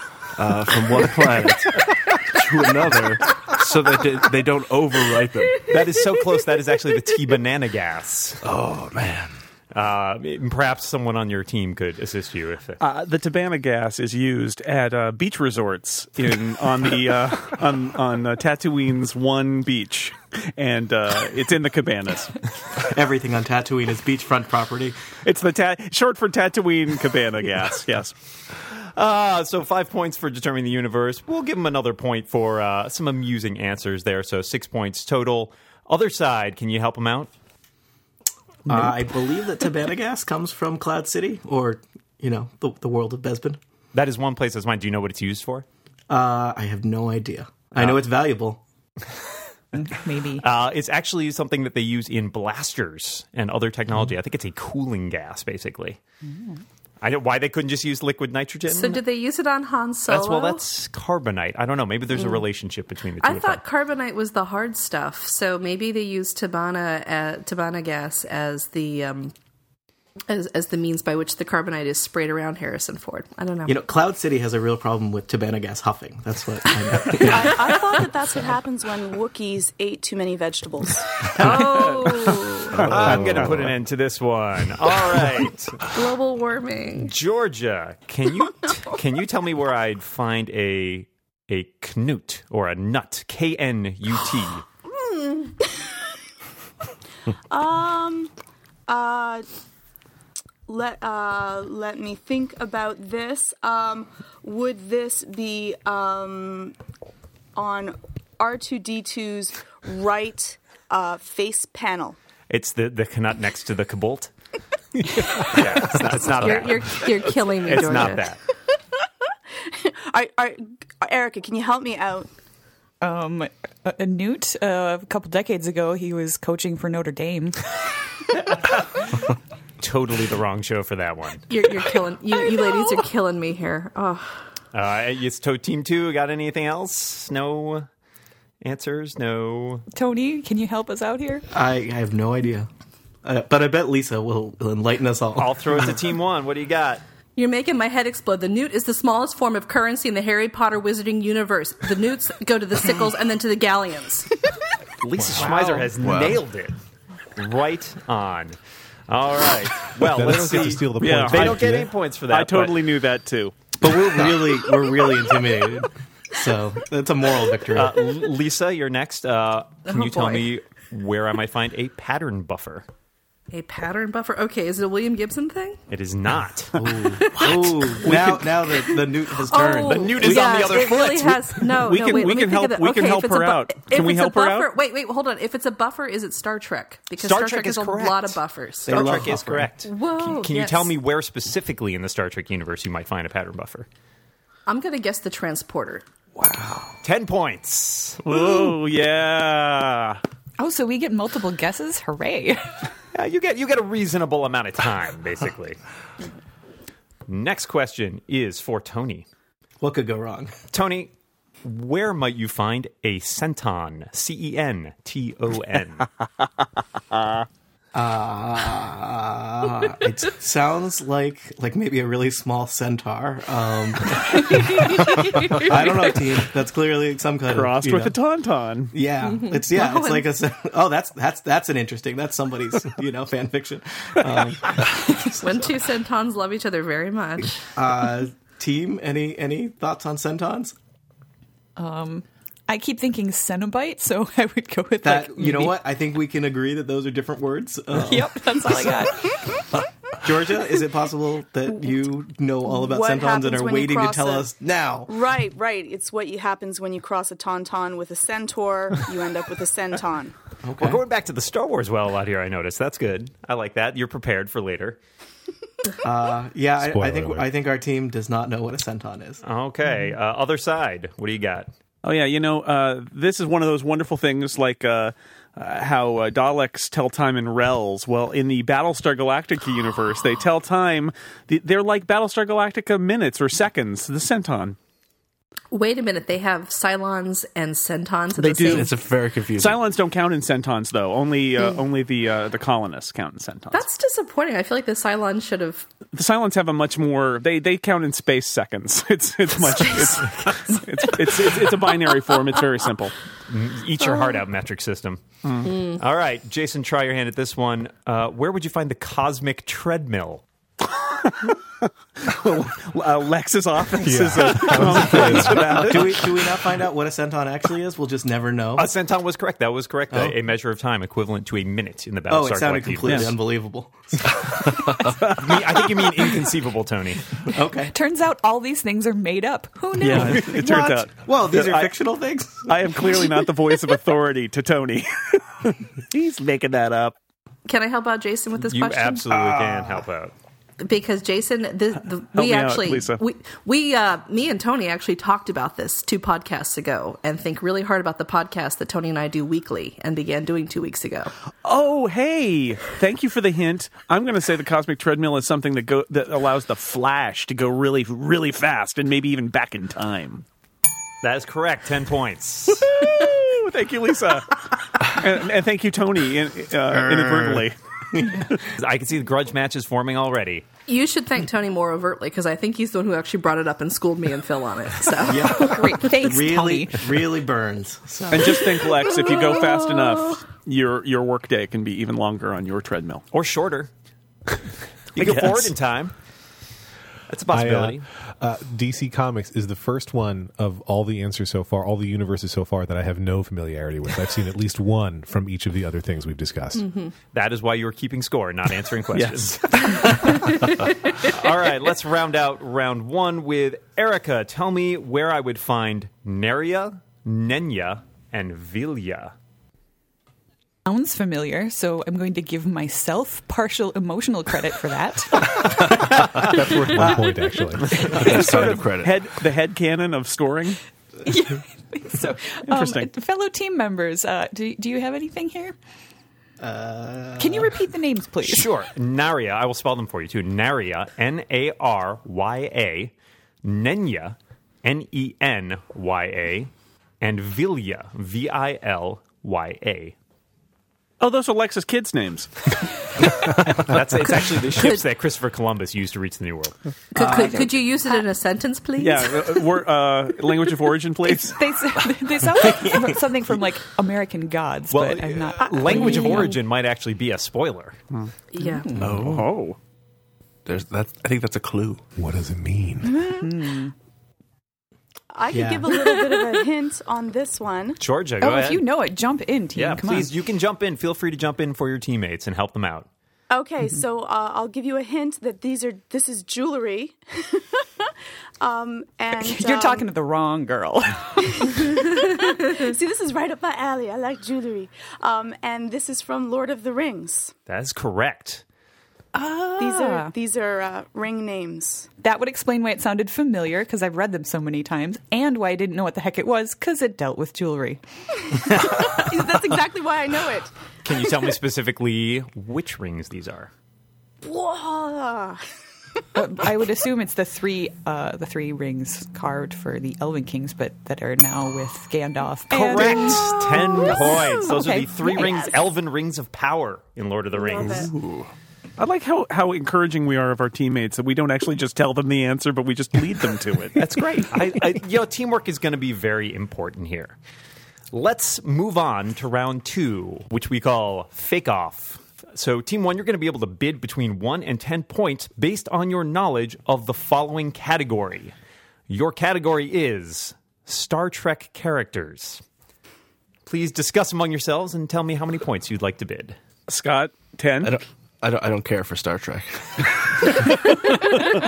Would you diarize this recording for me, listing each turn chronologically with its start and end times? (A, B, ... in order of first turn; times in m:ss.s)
0:00.3-0:05.7 A
0:05.6-0:08.4 B
0:08.4-0:09.3 A
0:09.7-0:12.8 B
0:12.8-0:22.4 C
0:22.8-0:25.0 D
0:25.2-0:28.1 C
0:28.9-0:37.3 B
0:38.6-0:43.6 D
0:43.9-0:45.6 B
0:46.1-0:48.6 D
0:49.8-0:50.4 E
0:50.4-0:56.0 B
0:57.0-0:59.0 B
0:58.6-1:00.6 F
1:00.1-1:03.6 B
1:03.2-1:09.3 F
1:10.3-1:13.8 F
1:13.6-1:17.7 D
1:17.2-1:21.2 G
1:21.3-1:22.8 F
1:21.4-1:21.9 B
1:22.7-1:23.8 A
1:22.8-1:25.8 B
1:25.8-1:27.1 F
1:27.0-1:34.6 B
1:35.1-1:35.9 G
1:37.5-1:38.3 G
1:38.9-1:39.5 G
1:40.7-1:46.8 G
1:47.5-1:52.2 G
1:52.5-1:54.3 B
1:55.0-1:58.4 B
1:56.3-1:58.3 F
1:59.6-2:02.3 G
2:03.0-2:07.6 E
2:09.8-2:11.4 B
2:11.5-2:14.4 F
2:14.7-2:17.9 B
2:18.6-2:19.8 B
2:19.9-2:21.4 E
2:21.5-2:22.7 D
2:23.2-2:25.9 D
2:25.4-2:27.0 B
2:27.4-2:34.3 F
2:35.0-2:36.7 B
2:35.2-2:35.5 H
2:35.4-2:35.9 C
2:36.0-2:36.4 A
2:37.4-2:38.6 B
2:39.1-2:42.8 B
2:40.0-2:41.9 H
2:41.0-2:41.7 C
2:42.3-2:43.5 C
2:43.8-2:47.9 D
2:47.7-2:52.8 B
2:49.8-2:50.5 F
2:53.5-2:55.8 F
2:55.9-2:56.8 B
2:56.8-3:00.7 D
2:57.1-2:57.9 F
2:58.0-2:58.7 C
2:59.4-3:10.9 F
2:59.5-3:04.7 C
3:00.2-3:00.9 B
3:07.2-3:13.9 B
3:08.8-3:09.7 D
3:14.7-3:16.1 F
3:16.4-3:16.9 C
3:17.0-3:18.2 B
3:18.2-3:20.2 C
3:20.6-3:22.8 E
3:23.1-3:25.8 B
3:27.3-3:29.2 B
3:29.8-3:30.5 D
3:30.7-3:31.1 B
3:31.6-3:36.1 B
3:37.9-3:48.1 D
3:47.5-3:48.9 C
3:48.9-3:54.8 D
3:49.2-3:50.3 F
3:55.2-3:57.6 F
3:57.7-4:00.7 D
4:01.8-4:05.8 E
4:05.0-4:09.0 D
4:08.0-4:09.3 E
4:10.2-4:15.1 D
4:12.8-4:14.5 G
4:15.1-4:20.4 G
4:20.6-4:21.0 D
4:20.8-4:25.0 B
4:26.0-4:29.4 D
4:26.8-4:27.5 H
4:29.4-4:31.7 B
4:32.0-4:44.8 C
4:45.7-4:48.9 F
4:48.4-4:48.9 C
4:48.6-4:49.8 A
4:49.6-4:53.8 C
4:53.7-4:55.8 F
4:56.1-5:03.2 C
5:03.5-5:05.2 B
5:04.0-5:04.4 F
5:05.4-5:05.7 C
5:05.6-5:06.0 F
5:05.9-5:10.4 B
5:11.1-5:11.6 C
5:12.2-5:16.6 C
5:14.0-5:16.0 H
5:15.0-5:18.9 D
5:18.8-5:23.3 B
5:20.1-5:20.4 D
5:22.3-5:24.9 D
5:23.0-5:23.4 C
5:25.2-5:25.6 C
5:25.3-5:27.2 B
5:27.5-5:27.9 D
5:27.9-5:31.0 E
5:30.0-5:31.9 C
5:31.2-5:32.7 D
5:32.6-5:37.2 C
5:37.6-5:39.4 F
5:38.6-5:40.3 B
5:39.5-5:40.0 D
5:40.8-5:51.3 F
5:42.3-5:43.2 C
5:51.6-6:00.4 C
6:01.2-6:02.9 B
6:02.8-6:07.8 C
6:06.9-6:08.5 D
6:08.8-6:10.6 B
6:10.9-6:15.5 F
6:15.2-6:18.9 D
6:15.5-6:17.0 E
6:18.3-6:23.2 C
6:19.2-6:20.1 F
6:23.3-6:23.9 B
6:25.1-6:26.1 B
6:25.2-6:25.7 C
6:27.3-6:28.0 B
6:27.5-6:36.8 H
6:36.8-6:37.1 F
6:37.3-6:40.1 B
6:39.1-6:40.4 C
6:41.2-6:49.3 B
6:50.8-6:56.2 E
6:56.4-6:58.1 H
6:56.8-6:57.1 E
6:58.0-7:00.8 C
6:58.0-6:59.2 A
7:01.2-7:05.8 E
7:02.7-7:03.1 C
7:06.6-7:07.8 D
7:07.4-7:08.7 E
7:08.4-7:13.1 B
7:13.6-7:20.1 B
7:21.2-7:22.5 C
7:23.4-7:23.8 A
7:23.6-7:26.7 B
7:27.1-7:29.7 F
7:27.2-7:27.7 D
7:29.0-7:31.6 C
7:31.2-7:36.5 E
7:32.6-7:33.2 D
7:34.9-7:38.0 B
7:35.9-7:36.5 F
7:38.5-7:39.1 F
7:39.0-7:39.5 A
7:39.0-7:39.8 C
7:40.6-7:42.0 A
7:42.2-7:43.2 H
7:43.1-7:43.9 E
7:45.3-7:48.0 G
7:45.5-7:45.9 D
7:48.0-7:48.8 B
7:48.4-7:50.3 E
7:49.7-7:53.1 B
7:53.5-8:00.1 G
7:59.3-8:01.9 E
8:01.4-8:07.5 G
8:07.7-8:08.6 B
8:09.3-8:10.3 E
8:09.8-8:12.1 G
8:12.2-8:18.0 E
8:18.4-8:20.7 G
8:18.6-8:19.0 E
8:21.0-8:23.7 B
8:24.4-8:25.7 G
8:26.3-8:35.7 E
8:32.7-8:38.1 B
8:37.6-8:38.1 G
8:37.8-8:38.5 A
8:39.0-8:44.1 C
8:44.0-8:47.4 B
8:48.1-8:58.5 B
8:59.1-9:02.6 B
9:03.6-9:06.6 B
9:06.9-9:08.0 C
9:07.8-9:10.7 A